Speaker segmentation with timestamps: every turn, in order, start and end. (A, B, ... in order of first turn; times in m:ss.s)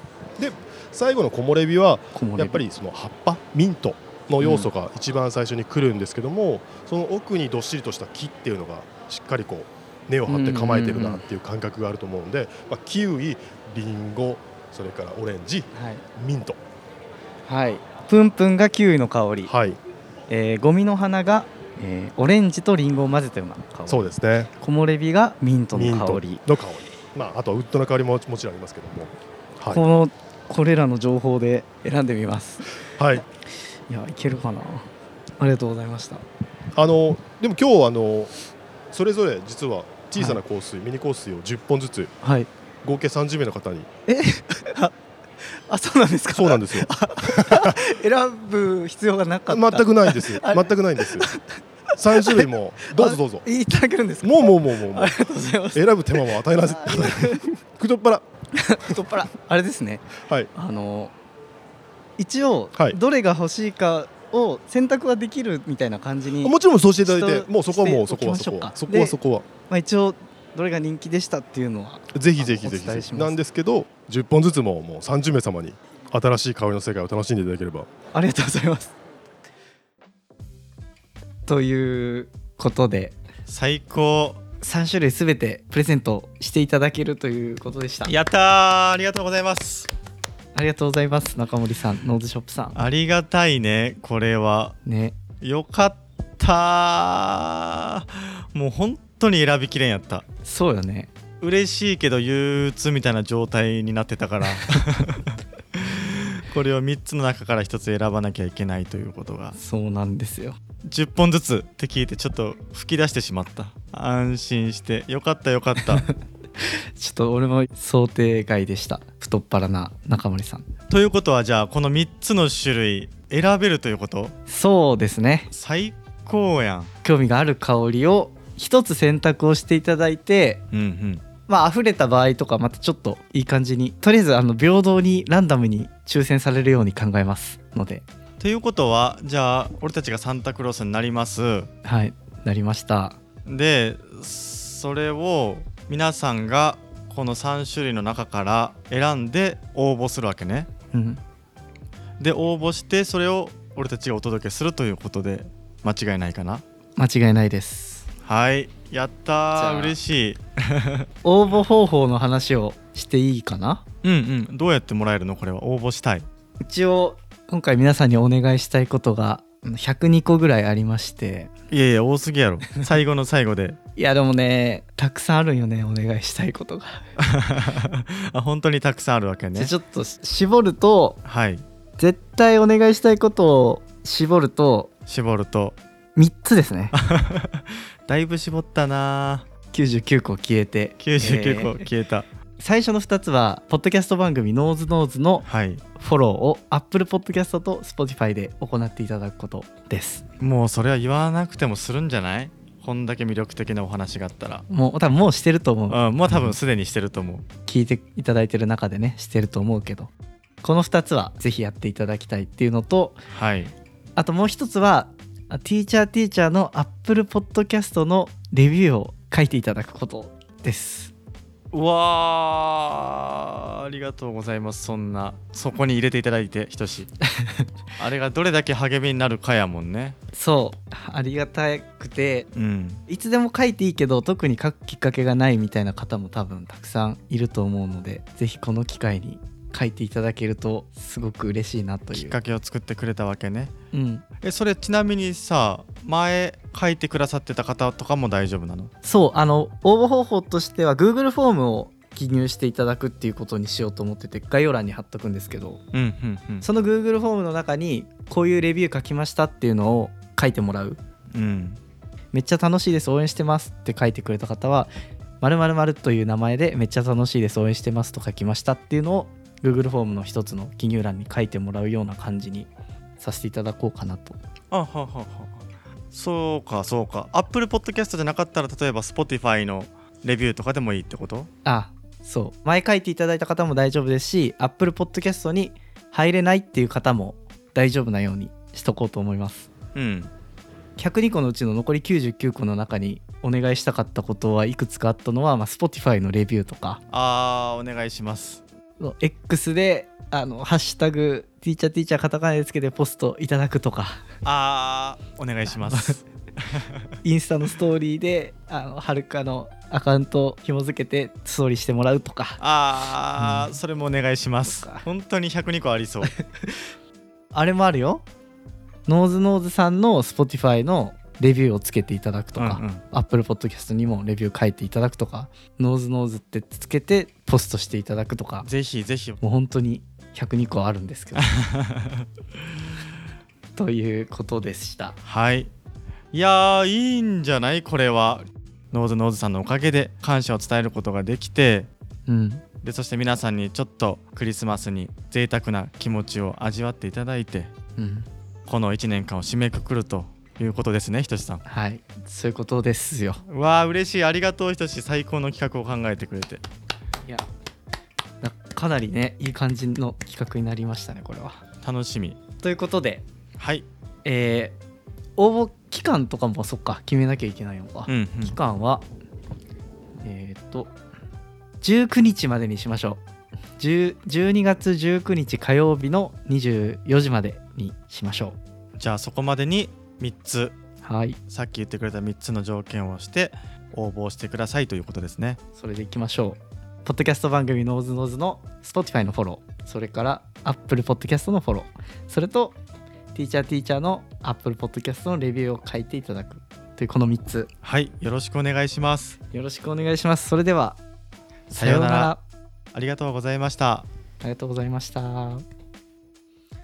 0:00.4-0:16.6 A
0:02.1-0:02.6 B
0:04.4-0:04.7 B
0:10.3-0:11.2 B
0:15.7-0:16.0 B
0:17.5-0:19.5 B
0:19.4-0:19.8 A
0:20.3-0:26.4 B
0:23.9-0:24.5 A
0:25.7-0:29.8 A
0:29.7-0:32.8 B
0:32.9-0:33.2 A
0:33.9-0:36.2 B
0:36.7-0:38.3 A
0:38.9-0:42.1 A
0:40.2-0:40.4 B
0:42.2-0:42.5 B
0:42.8-0:43.9 A
0:44.1-0:57.4 B
0:46.3-0:47.8 A
0:49.5-0:51.3 A
0:52.0-0:53.4 A
0:54.2-0:55.1 A
0:55.7-0:58.2 A
0:58.5-1:01.1 B
1:02.2-1:09.2 B
1:06.4-1:09.5 A
1:09.7-1:13.4 B
1:12.1-1:17.9 A
1:18.1-1:18.9 B
1:21.5-1:23.1 B
1:23.5-1:24.4 C
1:24.6-1:28.1 B
1:28.0-1:29.9 C
1:30.5-1:32.8 B
1:32.7-1:34.8 C
1:34.8-1:35.2 B
1:35.4-1:40.2 C
1:40.4-1:41.1 B
1:41.4-1:49.6 C
1:49.5-1:50.6 B
1:50.8-1:56.1 C
1:56.1-2:00.7 B
2:00.9-2:04.3 C
2:04.5-2:05.5 B
2:05.5-2:06.9 C
2:07.0-2:10.6 B
2:10.7-2:11.2 C
2:11.5-2:18.0 B
2:18.4-2:21.7 C
2:21.8-2:23.2 B
2:23.4-2:30.7 C
2:30.9-2:31.2 B
2:32.2-2:36.6 C
2:37.0-2:38.1 B
2:38.2-2:41.1 C
2:39.5-2:40.0 B
2:41.2-2:43.8 B
2:44.0-2:46.2 C
2:46.6-2:51.5 B
2:51.7-2:53.8 C
2:54.0-2:57.1 B
2:57.2-2:59.7 C
2:59.6-3:01.2 B
3:01.2-3:01.6 C
3:02.0-3:04.9 B
3:05.1-3:05.8 C
3:06.2-3:06.9 B
3:06.9-3:09.5 C
3:09.7-3:11.9 B
3:11.0-3:12.3 C
3:12.6-3:20.2 B
3:15.4-3:15.8 C
3:20.4-3:24.6 C
3:24.7-3:26.6 B
3:25.9-3:27.5 C
3:27.6-3:30.1 B
3:30.6-3:33.2 B
3:33.3-3:33.7 C
3:34.2-3:41.1 B
3:41.7-3:47.1 C
3:47.2-3:47.7 B
3:48.0-3:50.2 C
3:50.3-3:52.5 B
3:52.5-3:53.0 C
3:53.1-4:02.4 B
4:02.1-4:03.7 C
4:03.9-4:04.2 B
4:04.4-4:08.9 C
4:09.0-4:15.8 B
4:15.9-4:16.6 C
4:16.6-4:21.0 B
4:21.3-4:21.8 C
4:22.3-4:24.9 B
4:25.4-4:32.7 B
4:33.2-4:34.4 B
4:34.7-4:41.5 C
4:41.6-4:49.7 B
4:49.9-4:50.3 C
4:51.0-4:57.0 B
4:57.1-4:58.6 C
4:59.0-5:04.2 B
5:04.4-5:07.2 C
5:05.7-5:06.2 B
5:07.2-5:12.6 B
5:12.6-5:16.3 C
5:13.4-5:13.7 B
5:14.6-5:15.0 B
5:16.2-5:16.8 B
5:17.5-5:18.2 B
5:19.1-5:28.7 B
5:22.6-5:23.0 C
5:28.6-5:29.4 C
5:29.4-5:31.5 B
5:31.4-5:32.2 C
5:33.8-5:35.2 B
5:35.2-5:35.7 C
5:36.3-5:41.9 C
5:42.3-5:42.6 B
5:42.8-5:47.7 C
5:48.0-5:48.3 B
5:48.7-5:51.6 C
5:51.6-5:53.4 B
5:53.5-5:56.6 C
5:58.4-6:01.6 B
6:01.8-6:02.4 C
6:02.6-6:03.2 B
6:03.6-6:03.8 C
6:04.2-6:04.7 B
6:05.4-6:09.0 B
6:08.1-6:08.5 C
6:10.2-6:10.9 B
6:11.8-6:13.2 B
6:13.8-6:18.6 B
6:19.0-6:20.7 C
6:21.0-6:21.4 B
6:21.5-6:25.6 C
6:25.8-6:32.8 B
6:33.3-6:37.7 B
6:37.8-6:39.4 C
6:39.5-6:41.0 B
6:41.7-6:42.4 B
6:41.7-6:42.3 C
6:42.9-6:44.0 C
6:44.4-6:45.6 B